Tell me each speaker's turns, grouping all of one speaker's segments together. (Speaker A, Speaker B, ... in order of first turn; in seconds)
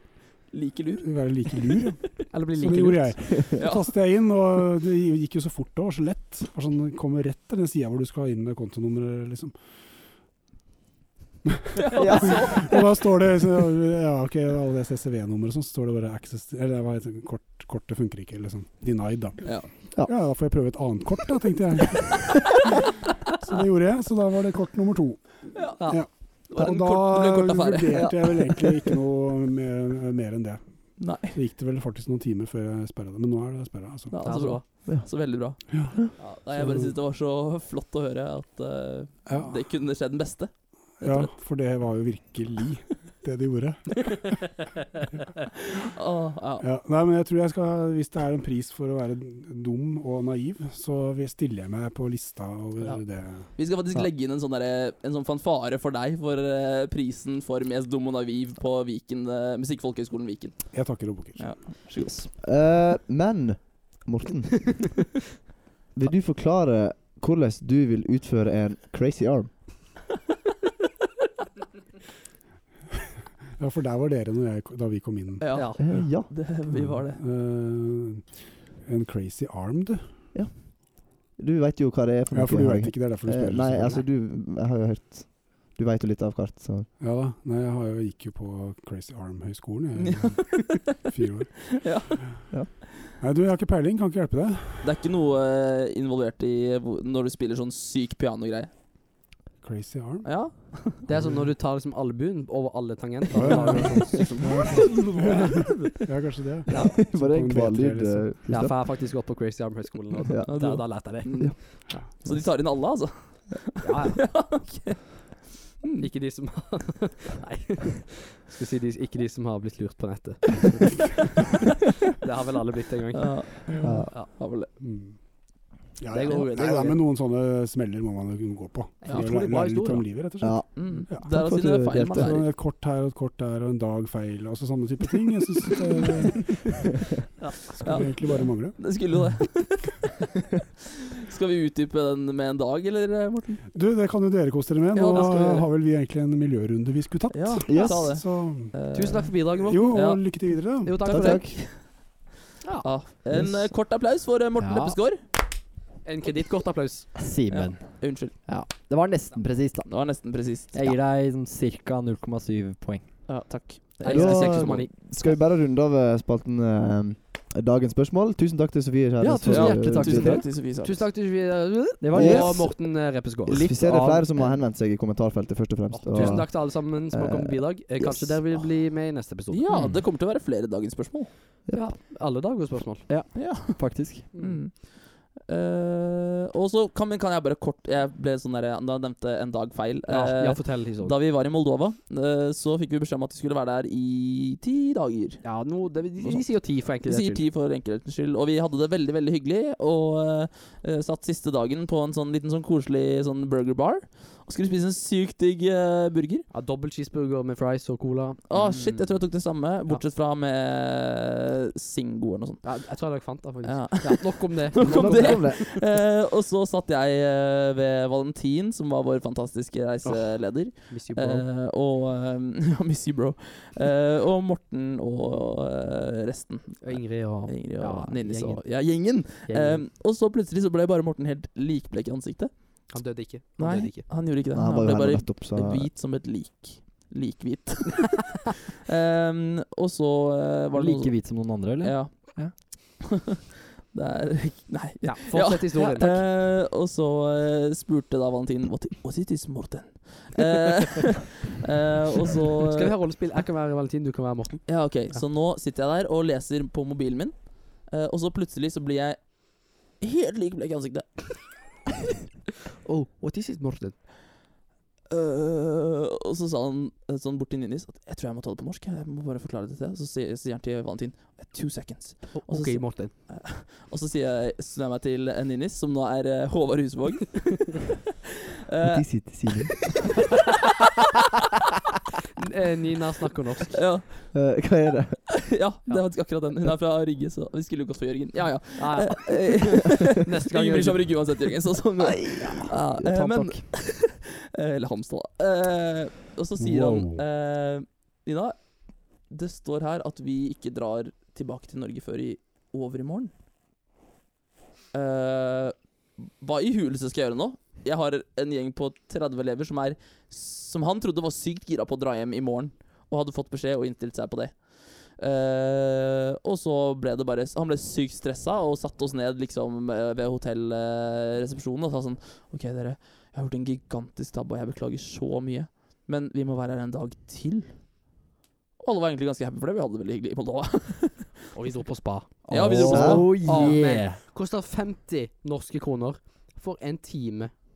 Speaker A: 0.5-1.9, 3.5-4.0, 11.7-12.8, 19.4-19.7, 25.5-28.4, 31.0-31.4, 34.1-41.3, 45.8-46.6, 52.8-62.3, 75.4-77.2, 90.0-91.0, 91.7-92.2, 94.8-98.7, 100.2-101.0, 103.6-105.2, 110.5-115.0, 123.2-124.7, 130.7-132.5, 137.8-140.5, 141.2-143.6, 144.9-145.7, 147.3-150.5, 151.3-151.8, 152.8-155.2, 157.5-158.5, 159.8-160.9, 163.3-164.9, 169.4-171.1, 179.5-181.3, 183.3-195.4, 196.2-206.5, 208.5-233.0, 233.6-243.2, 243.9-252.9, 254.7-261.5, 265.1-277.8, 278.7-279.4, 283.7-284.3, 285.5-303.3, 304.9-328.1, 328.8-331.5, 332.5-333.8
Speaker B: 1.0-9.6, 11.4-22.4, 23.3-25.3, 25.9-34.2, 35.7-36.9, 39.2-39.6, 41.0-44.5, 46.6-53.5, 60.7-61.5, 73.6-76.1, 76.7-80.1, 82.3-84.0, 87.0-91.7, 93.2-94.9, 99.6-100.3, 103.3-108.3, 124.8-125.2, 126.0-131.3, 132.1-136.7, 137.7-138.8, 143.7-148.7, 149.6-151.0, 296.6-297.2
Speaker C: 2.3-3.1, 25.8-26.0, 34.2-34.6, 75.5-75.8, 101.1-105.9, 106.7-106.9, 108.5-112.0, 113.8-114.2, 116.0-121.6, 122.2-124.3, 126.1-127.0, 129.0-130.1, 148.9-151.7, 152.6-152.9, 156.0-157.1, 164.0-165.3, 169.3-173.7, 175.9-179.7, 181.7-183.1, 184.3-184.6, 190.1-191.2, 195.4-197.4, 206.5-209.3, 212.6-215.8, 220.0-221.5, 226.8-229.8, 232.9-234.0, 245.0-246.1, 252.7-255.2, 262.8-264.0, 272.3-273.1, 282.4-283.8, 288.8-291.1, 331.5-332.4, 333.0-337.5
Speaker D: 12.0-12.3, 27.9-28.3, 62.4-64.9, 65.9-69.6, 75.8-76.4, 80.3-86.9, 106.7-108.8, 111.2-111.5, 123.8-124.1, 130.4-132.4, 147.7-148.2, 151.1-151.6, 164.0-170.4, 172.1-172.9, 173.5-178.4, 214.8-215.6, 234.5-235.9, 278.8-280.0, 284.3-285.3, 332.5-333.3
Speaker E: 154.6-155.0, 157.2-163.5, 169.2-170.4, 172.0-172.8, 173.4-174.6, 176.1-176.4, 179.7-180.0, 183.1-184.3, 240.7-242.6, 245.7-246.2, 292.9-293.7, 332.5-334.2